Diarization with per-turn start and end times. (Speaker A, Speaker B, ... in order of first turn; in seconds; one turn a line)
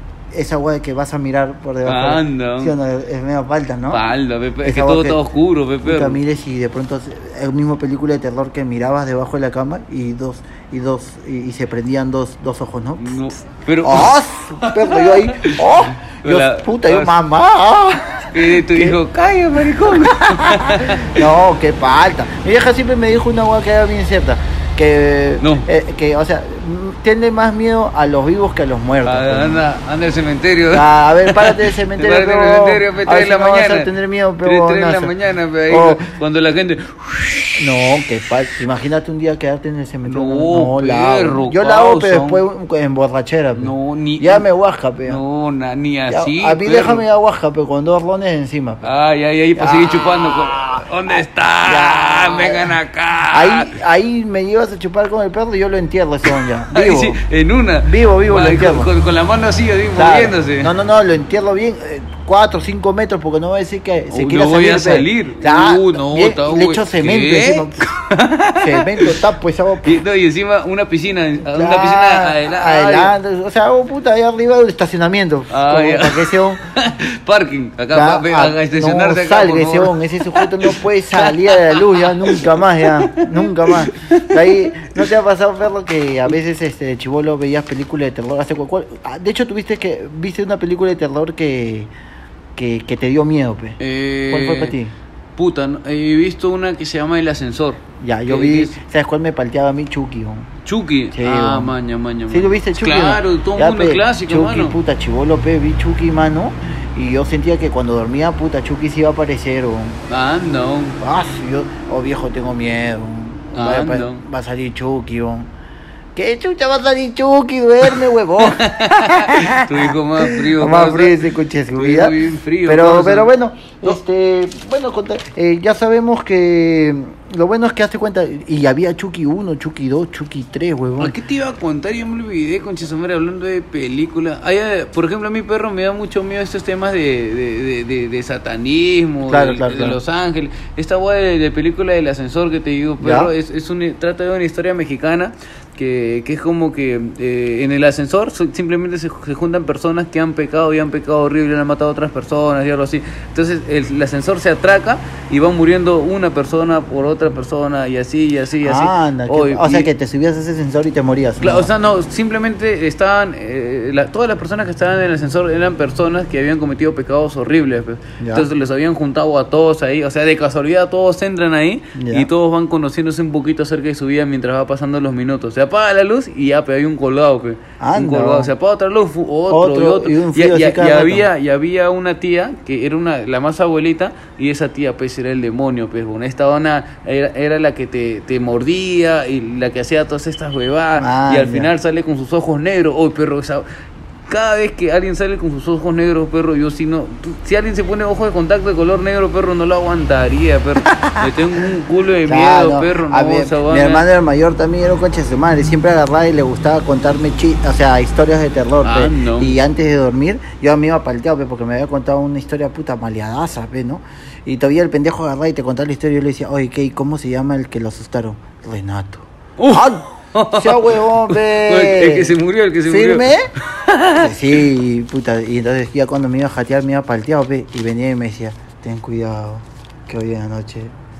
Speaker A: 0.3-4.0
Speaker B: 1.8-2.7
Speaker B: 3.9-6.2
Speaker A: 4.6-5.2
Speaker A: 5.8-13.2
Speaker B: 13.0-17.1
Speaker A: 13.8-19.0
Speaker B: 18.3-21.2
Speaker A: 19.9-29.6
Speaker B: 25.4-25.7
Speaker B: 29.0-33.9
Speaker A: 30.7-35.1
Speaker B: 34.4-37.6
Speaker A: 35.7-36.0
Speaker A: 37.6-45.2
Speaker B: 40.0-42.4
Speaker B: 43.5-44.4
Speaker B: 45.1-47.0
Speaker A: 46.1-48.9
Speaker B: 48.8-53.8
Speaker A: 49.5-52.8
Speaker A: 53.3-57.2
Speaker B: 56.7-60.7
Speaker A: 57.8-58.9
Speaker A: 59.9-67.8
Speaker B: 64.1-69.2
Speaker A: 68.6-70.0
Speaker B: 69.8-73.1
Speaker A: 71.5-76.6
Speaker B: 75.5-85.1
Speaker A: 77.9-91.9
Speaker A: 92.5-93.8
Speaker B: 93.8-94.7
Speaker A: 94.3-94.9
Speaker B: 95.3-98.8
Speaker A: 98.0-100.5
Speaker B: 100.7-104.8
Speaker A: 101.1-101.7
Speaker A: 102.3-110.0
Speaker B: 110.1-111.0
Speaker A: 111.0-115.5
Speaker B: 113.5-114.2
Speaker A: 116.2-131.1
Speaker B: 117.9-121.2
Speaker B: 121.8-123.3
Speaker B: 131.0-159.9
Speaker A: 139.3-140.0
Speaker A: 143.0-143.3
Speaker A: 158.6-161.7
Speaker B: 161.4-193.7
Speaker A: 168.2-168.5
Speaker A: 171.9-172.3
Speaker A: 177.8-178.5
Speaker A: 179.5-181.3
Speaker A: 191.0-191.7
Speaker B: 194.3-204.1
Speaker A: 200.8-201.2
Speaker A: 202.2-223.5
Speaker B: 208.8-209.6
Speaker B: 219.6-224.3
Speaker A: 224.2-230.9